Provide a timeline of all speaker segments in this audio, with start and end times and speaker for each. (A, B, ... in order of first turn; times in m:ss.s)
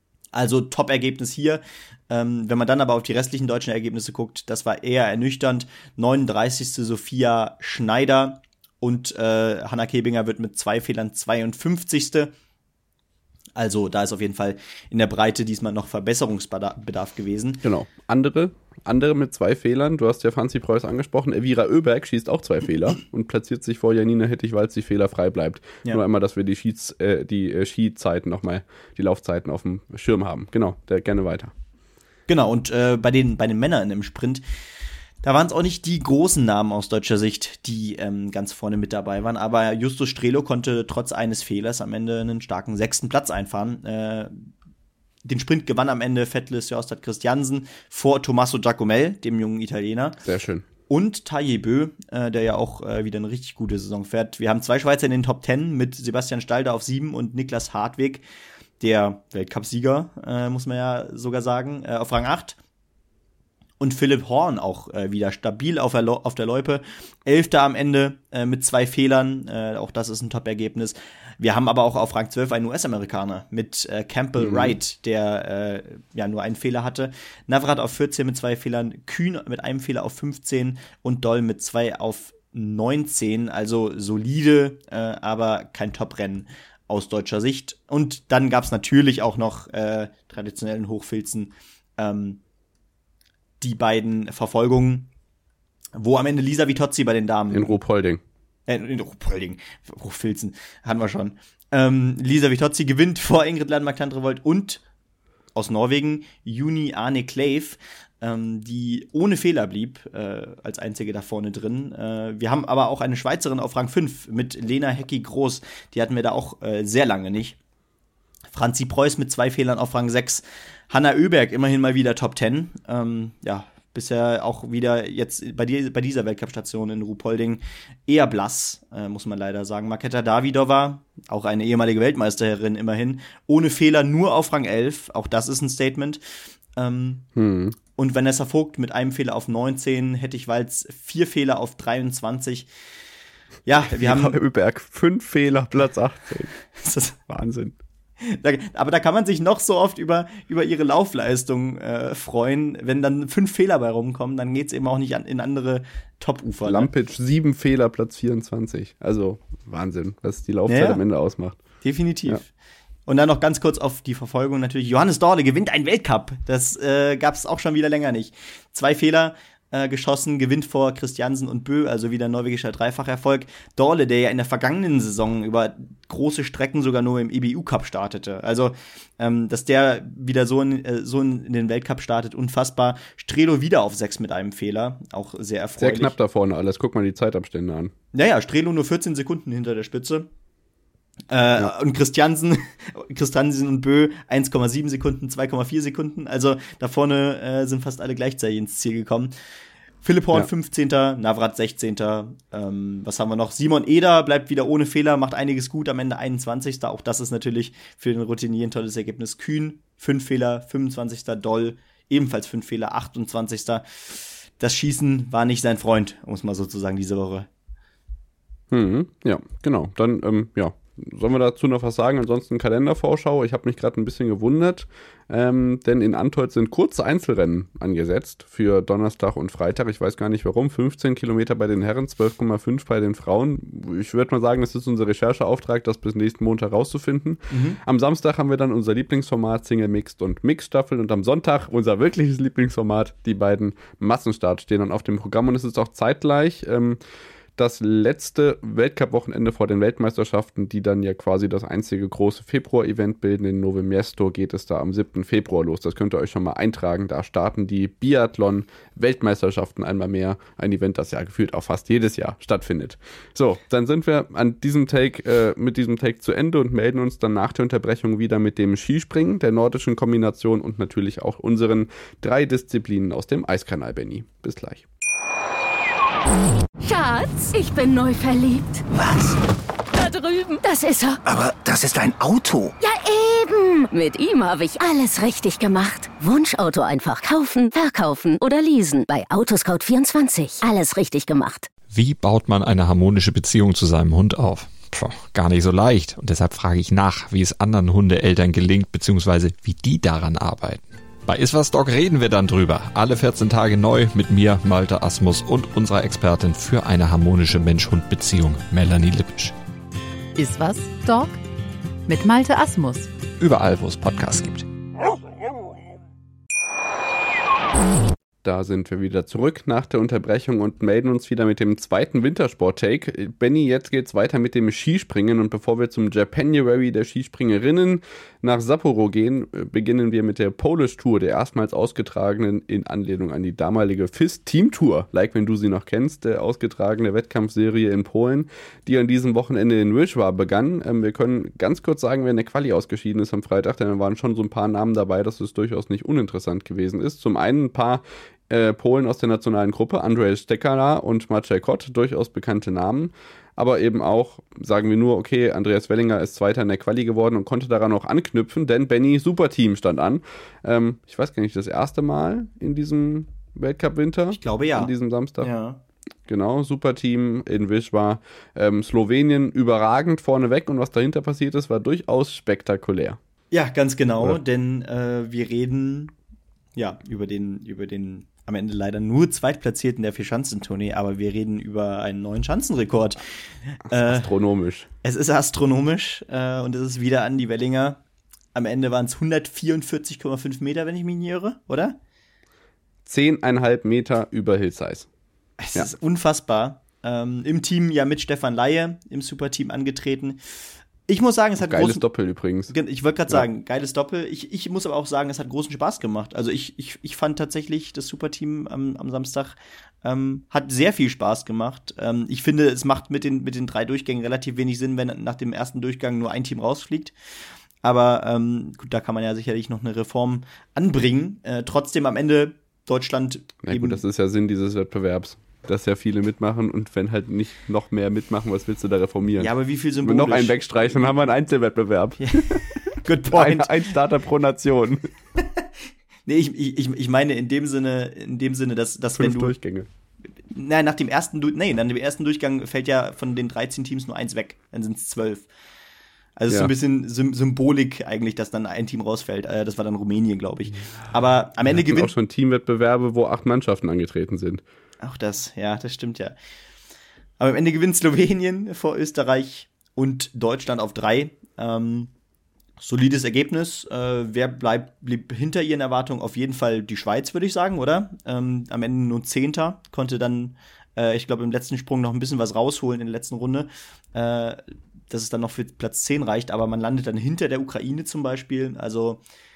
0:00.3-0:12.3 A
0:13.6-0:17.6 A
0:17.6-0:31.5 B
0:32.3-0:34.4 A
0:35.2-0:44.5 A
0:45.2-0:50.2 A
0:50.2-0:50.7 B
0:50.9-0:58.2 A
0:58.8-1:02.6 A
1:03.8-1:32.4 A
1:14.4-1:14.8 B
1:33.6-1:35.1 A
1:36.0-1:37.8 A
1:37.5-1:38.2 B
1:38.7-1:44.8 A
1:45.6-1:57.6 A
1:58.5-2:16.2 A
2:16.8-2:17.3 A
2:17.4-2:17.8 B
2:18.0-2:22.7 A
2:23.7-2:24.4 A
2:23.9-2:26.6 B
2:26.8-2:27.3 A
2:27.3-2:27.8 B
2:28.2-2:36.9 A
2:36.6-2:41.6 B
2:40.7-2:41.0 A
2:41.8-2:42.5 A
2:43.1-3:06.1 A
3:05.8-3:07.9 B
3:08.1-3:10.3 A
3:11.3-3:19.3 A
3:20.0-3:37.5 A
3:38.7-4:07.0 B
3:57.5-3:57.8 A
4:07.6-4:34.8 B
4:36.8-4:38.8 C
4:38.9-4:39.4 D
4:39.9-4:41.2 C
4:41.3-4:42.8 D
4:42.8-4:51.7 C
4:51.9-5:09.6 E
5:10.4-5:11.4 F
5:12.1-5:13.1 F
5:13.4-5:14.7 E
5:18.4-6:05.5 B
6:04.3-6:05.8 A
6:06.3-6:13.2 B
6:13.5-6:16.1 A
6:16.8-6:23.2 A
6:23.8-6:24.3 A
6:23.9-6:24.9 B
6:25.0-6:28.0 A
6:28.6-6:32.0 A
6:33.0-6:35.1 B
6:35.6-6:40.4 A
6:41.1-6:42.0 A
6:41.6-6:42.8 B
6:42.7-6:57.1 A
6:57.8-7:04.0 A
7:03.6-7:12.6 B
7:09.4-7:11.1 A
7:12.2-7:14.0 A
7:13.3-7:15.1 B
7:16.3-7:19.6 A
7:19.2-7:19.9 B
7:20.5-7:25.5 A
7:26.4-7:32.1 A
7:31.6-7:34.6 B
7:35.0-7:36.4 A
7:37.4-7:42.1 A
7:42.8-7:59.2 A